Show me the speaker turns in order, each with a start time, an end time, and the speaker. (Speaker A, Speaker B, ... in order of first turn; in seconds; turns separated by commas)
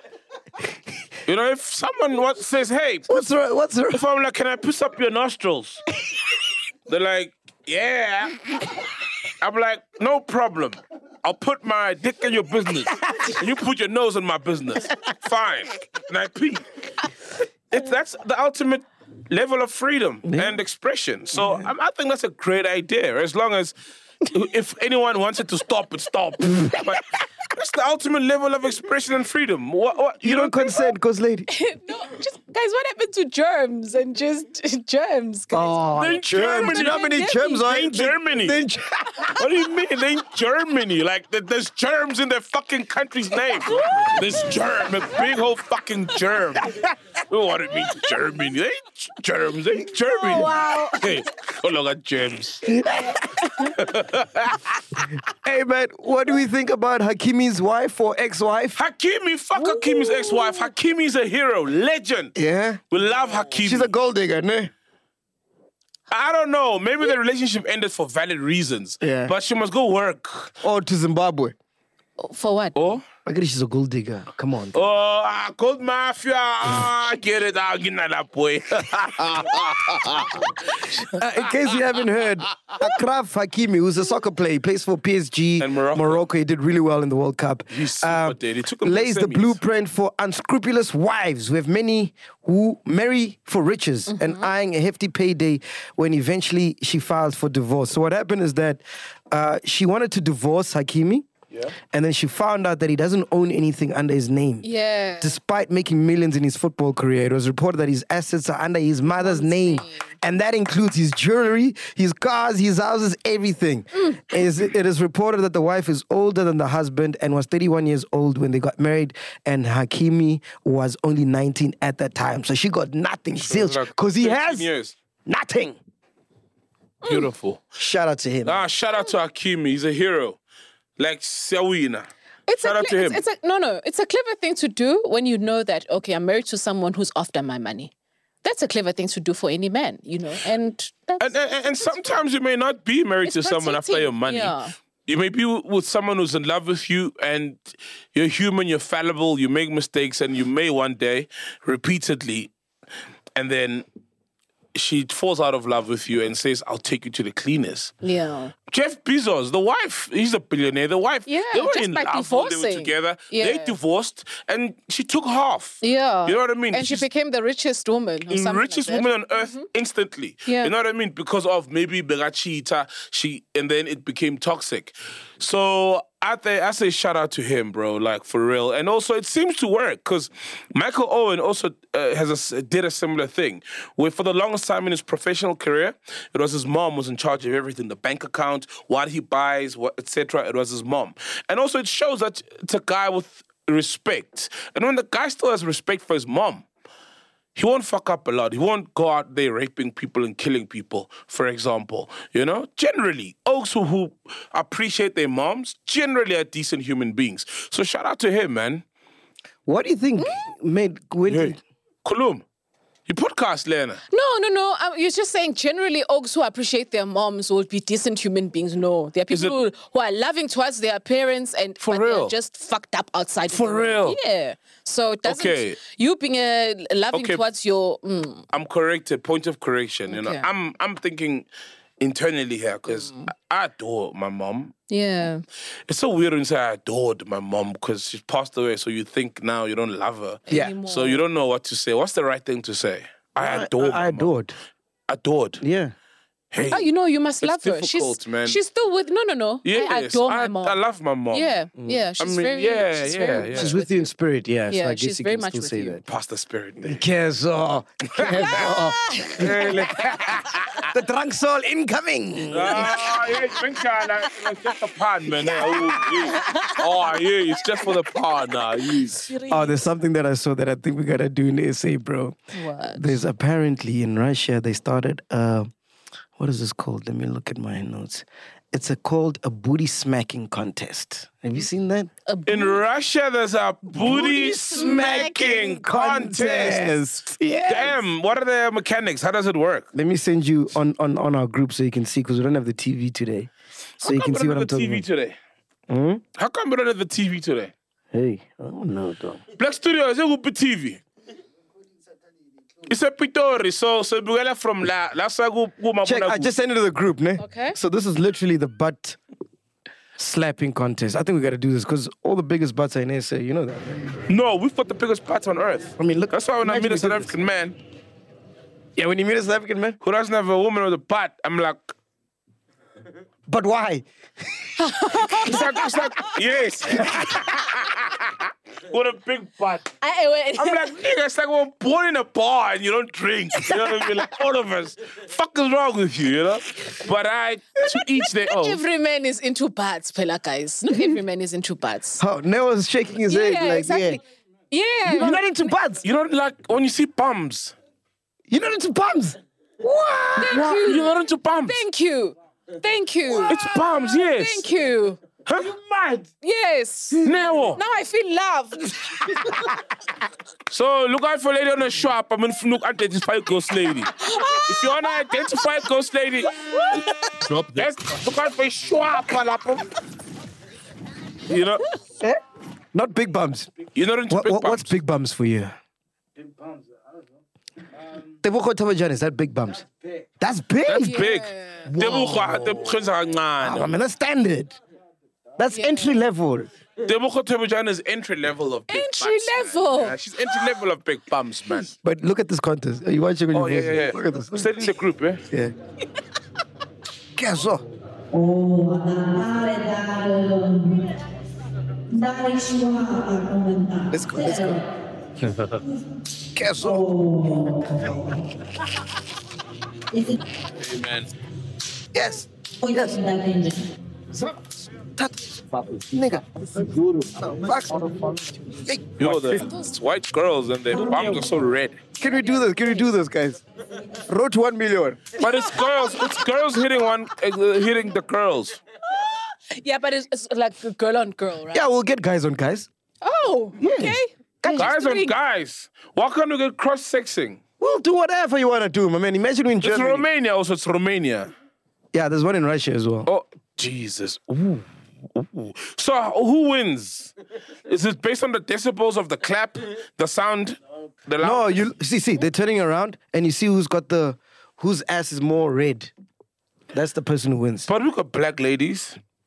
Speaker A: 1.3-3.1, Speaker B: 3.1-4.0, Speaker A: 3.9-5.9, Speaker A: 6.9-16.9, Speaker A: 17.7-23.7, Speaker B: 20.2-20.6, Speaker B: 21.4-21.6, Speaker A: 24.3-30.9, Speaker B: 30.2-31.5, Speaker C: 31.5-35.8, Speaker B: 35.5-39.3, Speaker A: 36.0-38.6, Speaker C: 36.3-37.6, Speaker A: 39.4-52.6, Speaker C: 43.9-44.2, Speaker C: 50.1-51.1, Speaker B: 52.6-53.5, Speaker A: 53.7-54.8, Speaker B: 55.3-58.8, Speaker A: 58.8-62.4, Speaker C: 59.7-60.5, Speaker B: 62.4-62.8, Speaker A: 62.9-63.9, Speaker B: 63.6-64.7, Speaker A: 66.1-70.5, Speaker B: 69.0-69.3, Speaker B: 70.6-71.5, Speaker C: 72.2-72.8, Speaker A: 72.8-73.0, Speaker B: 73.3-74.8, Speaker A: 74.7-81.2, Speaker B: 81.1-101.3, Speaker A: 85.6-86.3, Speaker A: 87.7-89.6, Speaker C: 94.1-94.5, Speaker B: 101.9-104.7, Speaker C: 104.6-105.4, Speaker B: 105.2-124.7, Speaker C: 109.1-110.1, Speaker C: 114.0-114.2, Speaker A: 123.3-125.0, Speaker B: 125.3-125.8, Speaker C: 127.0-127.3, Speaker A: 127.1-127.6, Speaker B: 127.8-128.6, Speaker A: 128.4-130.4, Speaker A: 131.0-132.1, Speaker C: 132.5-137.9, Speaker A: 132.6-133.2, Speaker C: 138.4-142.2, Speaker A: 141.2-144.6, Speaker C: 143.2-144.7, Speaker A: 145.1-152.5, Speaker A: 153.4-153.9, Speaker A: 154.8-157.9, Speaker C: 158.0-158.5, Speaker A: 158.7-167.1, Speaker C: 161.3-163.8, Speaker C: 165.8-169.7, Speaker A: 168.3-196.7, Speaker C: 170.5-170.7, Speaker A: 197.6-208.8, Speaker B: 209.7-211.6, Speaker C: 210.2-210.5, Speaker A: 211.3-212.4, Speaker A: 213.1-214.0, Speaker C: 214.1-228.4, Speaker A: 221.8-222.3, Speaker A: 223.5-224.2, Speaker A: 225.2-225.8, Speaker A: 227.1-227.4, Speaker A: 228.5-231.5, Speaker C: 230.1-230.5, Speaker A: 232.0-234.7, Speaker C: 232.9-233.3, Speaker C: 234.9-235.4, Speaker A: 235.9-244.3, Speaker C: 240.5-241.2, Speaker B: 243.4-244.5, Speaker A: 245.1-245.6, Speaker B: 245.6-245.9, Speaker A: 246.5-246.9, Speaker C: 246.7-250.8, Speaker A: 247.4-248.6, Speaker A: 249.7-251.5, Speaker C: 251.3-254.1, Speaker A: 252.2-253.8, Speaker B: 253.5-256.0, Speaker C: 254.7-256.0, Speaker A: 256.1-257.0, Speaker B: 256.8-259.9, Speaker C: 258.5-259.4, Speaker A: 259.4-260.8, Speaker B: 260.9-263.3, Speaker A: 262.5-269.3, Speaker C: 266.4-266.8, Speaker C: 269.3-269.9, Speaker B: 269.5-272.4, Speaker C: 272.5-273.1, Speaker B: 272.9-275.7, Speaker B: 276.4-282.1, Speaker C: 282.3-282.8, Speaker A: 282.5-286.9, Speaker B: 284.0-288.0, Speaker C: 284.5-285.6, Speaker A: 287.7-289.9, Speaker B: 289.9-293.5, Speaker A: 294.0-295.4, Speaker B: 294.0-295.0, Speaker B: 295.9-296.2, Speaker A: 296.4-297.7, Speaker B: 298.1-299.4, Speaker A: 299.6-301.0, Speaker A: 302.9-306.5, Speaker B: 306.0-309.2, Speaker C: 307.4-307.8, Speaker B: 310.2-314.2, Speaker A: 314.3-317.8, Speaker B: 316.0-317.3, Speaker B: 319.0-320.0, Speaker A: 320.0-321.9, Speaker B: 323.5-324.7, Speaker C: 324.8-325.9, Speaker A: 325.4-329.9, Speaker B: 326.9-327.3, Speaker C: 330.0-330.9, Speaker A: 330.6-338.8, Speaker C: 337.8-342.2, Speaker B: 340.9-341.2, Speaker B: 342.2-344.2, Speaker C: 343.3-345.4, Speaker B: 345.1-346.0, Speaker A: 345.1-345.5, Speaker A: 346.0-347.7, Speaker B: 348.5-350.7, Speaker C: 350.4-351.1, Speaker A: 350.5-351.8, Speaker C: 351.7-355.2, Speaker A: 353.5-354.7, Speaker A: 355.5-356.2, Speaker C: 356.4-359.3, Speaker A: 357.2-357.8, Speaker A: 360.7-364.1, Speaker C: 364.1-365.9, Speaker A: 364.7-369.9, Speaker C: 366.6-367.1, Speaker A: 371.5-371.8, Speaker B: 372.9-373.7, Speaker A: 373.9-374.9, Speaker B: 374.3-375.8, Speaker B: 378.4-381.3, Speaker A: 380.9-383.9, Speaker C: 380.9-382.3, Speaker B: 381.9-383.0, Speaker B: 383.6-384.8, Speaker B: 385.6-386.7, Speaker C: 385.7-386.2, Speaker A: 387.0-391.9, Speaker C: 388.9-390.2, Speaker B: 392.0-394.8, Speaker A: 393.5-395.4, Speaker B: 397.4-397.8, Speaker C: 398.3-401.1, Speaker C: 402.1-404.8, Speaker B: 404.1-404.8, Speaker B: 406.5-407.1, Speaker C: 406.8-408.3, Speaker A: 410.8-411.3, Speaker B: 412.1-413.2, Speaker C: 412.8-413.8, Speaker B: 414.3-419.7, Speaker A: 419.2-422.0, Speaker B: 422.2-423.6, Speaker C: 422.3-423.1, Speaker B: 424.2-425.3, Speaker A: 425.4-428.8, Speaker C: 425.4-426.8, Speaker C: 429.1-431.9, Speaker B: 431.7-432.9, Speaker C: 433.2-435.3, Speaker B: 433.8-434.9, Speaker A: 434.7-437.6, Speaker B: 437.8-440.3, Speaker A: 439.8-441.5, Speaker B: 442.1-443.3, Speaker A: 443.3-447.3, Speaker A: 447.9-451.8, Speaker B: 451.4-456.1, Speaker B: 456.9-457.9, Speaker A: 457.9-459.2